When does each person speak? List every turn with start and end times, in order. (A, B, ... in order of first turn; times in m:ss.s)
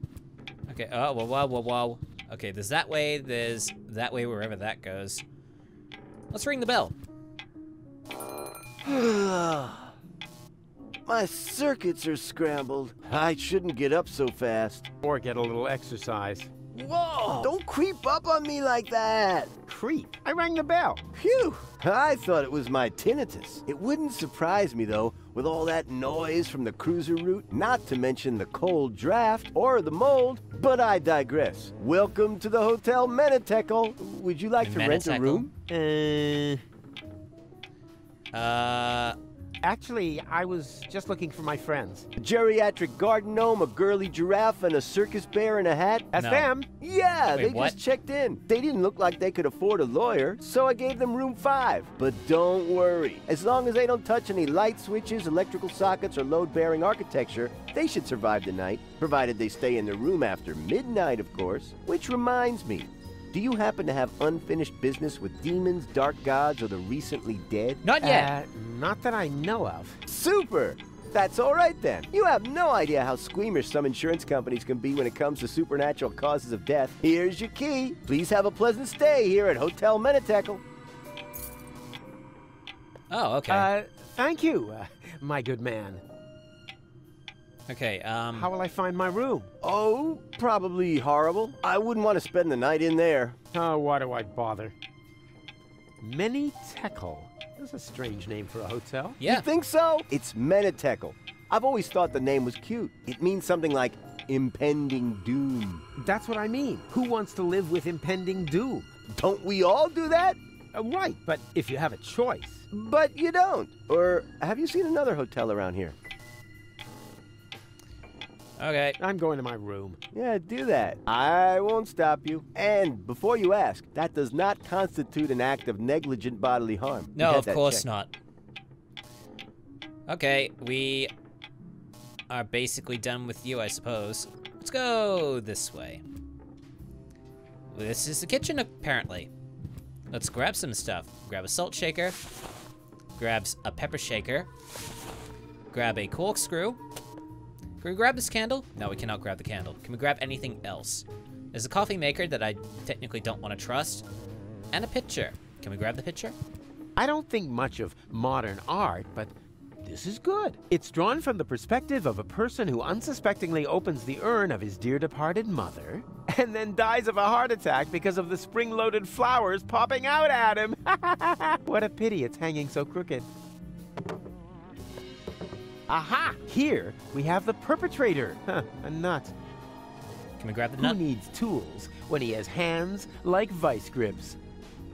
0:00.7-0:05.2 A
0:06.3-0:07.0 A
0:08.8-0:09.9 B
0:11.0-0:14.9 B
0:15.0-0:17.5 C
0:17.4-0:19.5 B
0:19.7-0:21.0 C
0:21.1-0:35.5 B
0:34.6-0:35.5 A
0:35.7-0:36.6 C
0:38.3-0:39.2 A
0:39.6-0:42.1 C
0:42.2-0:46.1 B
0:46.1-0:46.7 C
0:46.2-0:46.5 A
0:46.8-1:07.8 B
0:47.3-0:47.8 A
1:07.8-1:08.3 A
1:08.0-1:10.0 C
1:10.1-1:20.6 B
1:23.1-1:23.7 A
1:23.5-1:26.0 C
1:27.7-1:28.5 A
1:28.3-1:29.5 C
1:29.6-1:33.4 B
1:33.5-1:34.8 C
1:36.0-1:39.2 C
1:39.2-1:39.5 A
1:39.2-1:45.8 B
1:46.0-1:48.9 C
1:49.1-1:50.4 B
1:50.7-1:52.7 C
1:52.7-1:56.0 B
1:58.6-1:59.0 A
1:59.0-2:00.0 C
2:00.1-2:07.8 B
2:07.2-2:08.1 A
2:10.1-2:11.1 A
2:12.3-2:16.0 A
2:17.7-2:19.3 A
2:20.1-2:22.2 A
2:23.2-2:24.5 A
2:25.7-2:26.8 A
2:27.8-2:34.0 A
2:34.7-2:36.4 A
2:37.0-2:53.3 C
2:55.9-2:59.3 C
3:00.4-3:01.0 A
3:00.8-3:04.4 C